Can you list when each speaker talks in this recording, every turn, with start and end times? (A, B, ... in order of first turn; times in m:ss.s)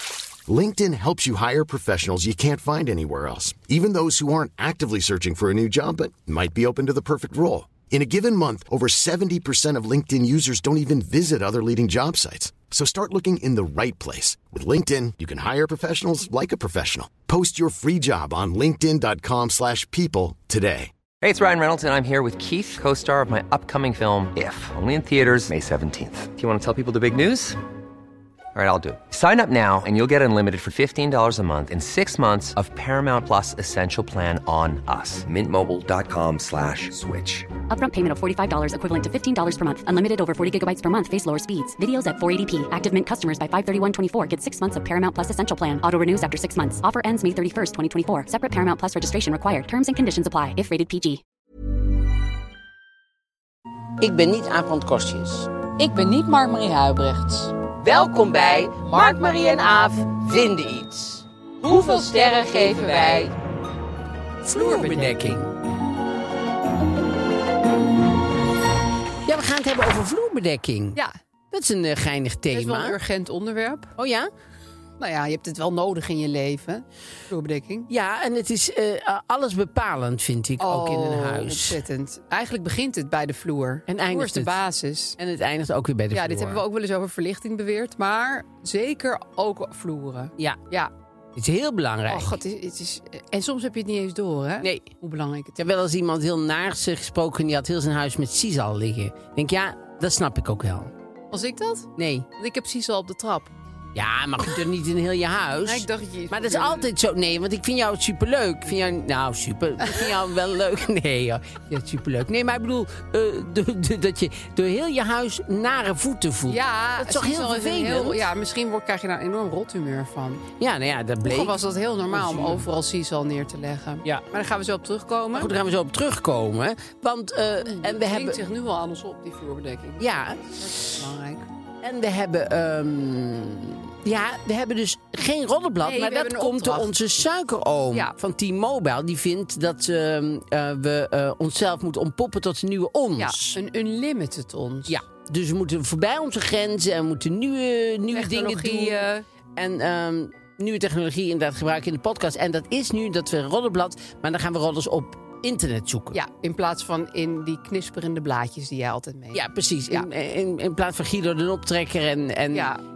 0:00.5-0:20.9 A
0:21.2-0:27.6 B
0:28.5-0:37.5 B
0:37.7-0:51.2 C
0:54.0-0:55.5 D
0:55.8-0:57.5 E
0:57.7-1:03.3 D
1:01.6-1:03.3 E
1:04.4-1:05.5 D
1:04.5-1:05.1 E
1:09.2-1:11.0 D
1:11.5-1:13.0 D
1:12.5-1:13.9 E
1:14.0-1:14.3 D
1:15.0-1:17.9 E
1:17.9-1:21.8 D
1:20.6-1:25.2 E
1:23.9-1:24.6 D
1:25.2-1:26.6 D
1:26.1-1:30.9 E
1:31.3-1:32.3 D
1:32.1-1:35.7 E
1:34.6-1:34.9 D
1:35.6-1:40.9 D
1:41.3-1:43.5 E
1:42.0-1:42.3 D
1:43.9-1:58.3 D
1:45.6-1:46.9 E
1:56.5-2:00.4 E
2:00.6-2:02.7 D
2:01.2-2:05.5 E
2:05.3-2:08.4 D
2:07.6-2:10.0 E
2:10.0-2:11.0 D
2:10.6-2:11.4 E
2:11.8-2:23.6 D
2:15.8-2:16.9 E
2:23.2-2:25.0 E
2:24.9-2:36.2 D
2:28.1-2:29.2 E
2:36.1-2:40.1 E
2:39.3-2:42.7 D
2:42.5-2:42.8 E